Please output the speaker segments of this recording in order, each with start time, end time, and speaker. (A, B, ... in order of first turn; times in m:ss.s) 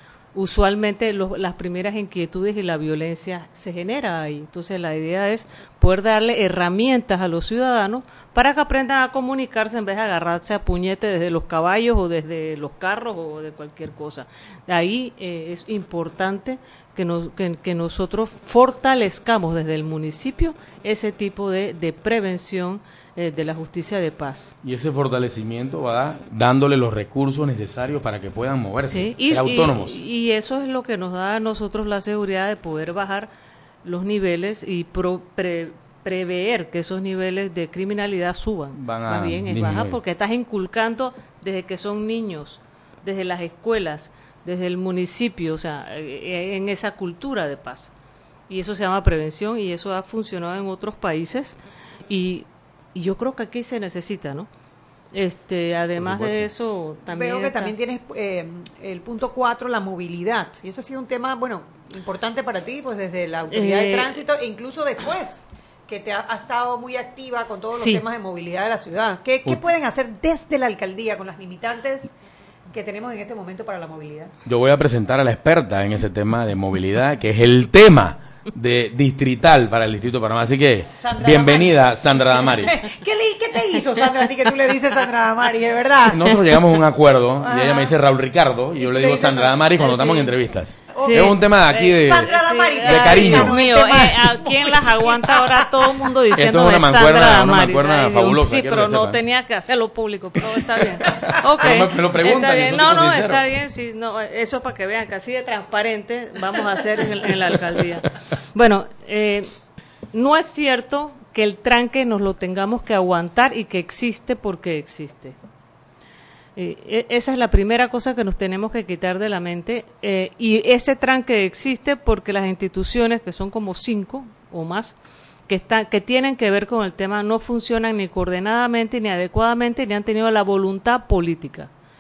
0:00.3-0:24.5 A
0:24.6-0:30.0 B
0:28.9-0:33.3 A
0:33.8-0:47.9 A
0:38.8-0:40.0 B
0:48.5-0:51.6 A
0:52.1-0:54.5 A
0:55.1-0:57.8 A
0:56.0-0:56.5 B
0:57.1-1:12.1 C
1:03.5-1:04.2 A
1:07.7-1:08.0 A
1:12.7-1:14.3 C
1:14.5-1:22.8 B
1:21.0-1:26.6 C
1:26.1-1:32.3 B
1:27.4-1:28.0 C
1:28.8-1:30.4 C
1:30.9-1:49.6 A
1:31.0-1:36.1 C
1:32.8-1:33.5 B
1:36.3-1:39.2 B
1:41.6-1:43.5 B
1:50.1-1:55.4 A
1:56.6-2:11.7 A